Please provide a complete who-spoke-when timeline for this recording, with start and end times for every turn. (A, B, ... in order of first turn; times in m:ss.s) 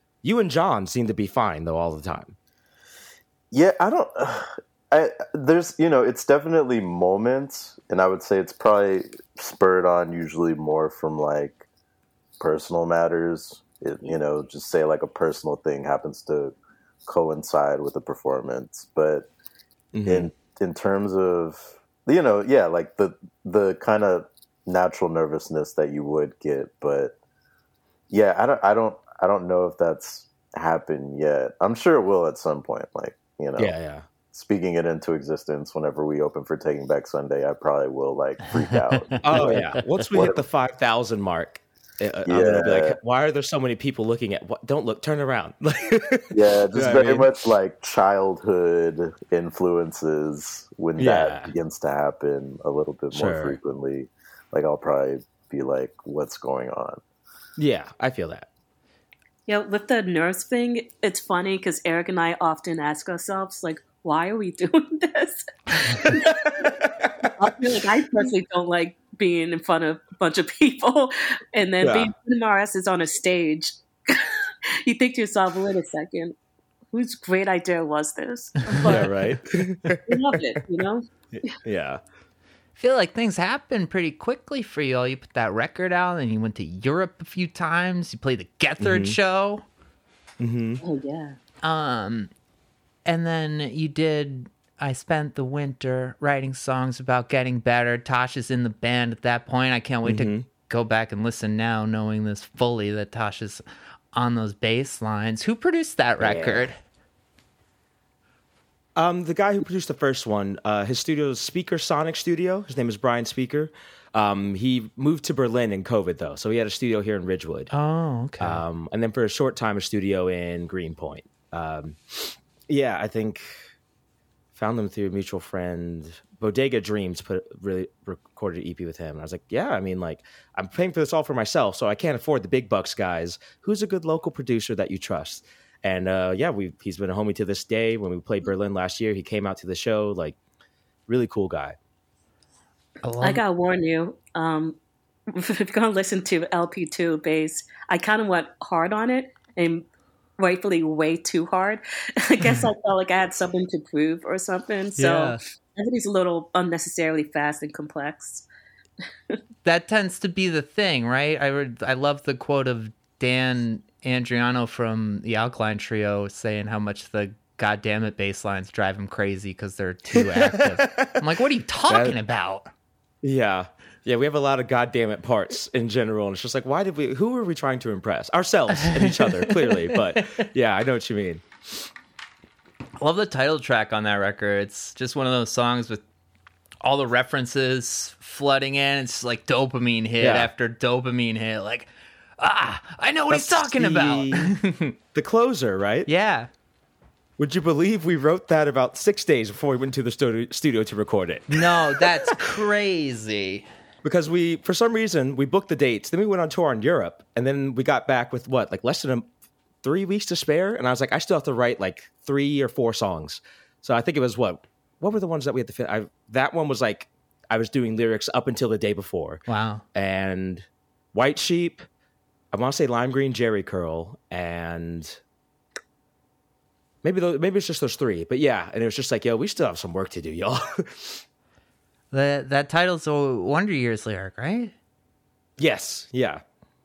0:00.2-0:02.4 A
0:03.5-0:11.6 B
0:12.4-0:16.6 B
0:17.1-0:19.3 B
0:19.9-0:20.3 A
0:20.1-0:27.2 B
0:28.1-0:33.7 B
0:33.6-0:34.1 A
0:34.3-0:40.4 B
0:38.6-0:39.4 C
0:39.2-0:47.3 A
0:42.3-0:43.0 B
0:46.3-0:57.0 B
0:51.0-0:51.5 A
0:53.1-0:53.6 A
0:57.6-0:58.5 A
0:59.5-1:06.7 D
1:06.1-1:07.5 A
1:07.4-1:16.4 D
1:11.8-1:12.1 A
1:16.9-1:19.2 D
1:18.8-1:19.0 C
1:18.8-1:20.4 A
1:20.1-1:21.6 D
1:21.3-1:22.0 A
1:22.8-1:29.6 C
1:28.8-1:29.2 A
1:30.4-1:30.8 A
1:30.8-1:31.4 D
1:31.6-1:32.3 C
1:33.1-1:46.8 C
1:40.0-1:40.5 A
1:46.2-1:46.7 A
1:49.0-1:57.7 A
1:57.7-1:58.6 C
1:58.4-2:03.6 A
2:04.5-2:20.4 A
2:21.1-2:21.8 A
2:23.0-2:23.4 C
2:23.2-2:24.8 D
2:25.3-2:29.8 D
2:30.4-2:38.5 D
2:35.0-2:35.4 C
2:39.6-2:52.7 C
2:50.2-2:51.2 A
2:51.9-2:52.2 A
2:53.2-3:01.9 A
2:58.8-3:00.4 C
3:03.0-3:06.0 C
3:06.8-3:15.0 C
3:10.2-3:10.5 A
3:13.3-3:14.6 A
3:15.1-3:16.1 A
3:16.1-3:16.5 C
3:17.4-3:21.6 A
3:21.5-3:23.7 C
3:24.0-3:29.3 A
3:29.8-3:41.9 A
3:39.5-3:39.8 C
3:42.5-3:45.2 A
3:47.0-3:51.2 A
3:52.1-3:54.7 C
3:55.6-3:56.4 A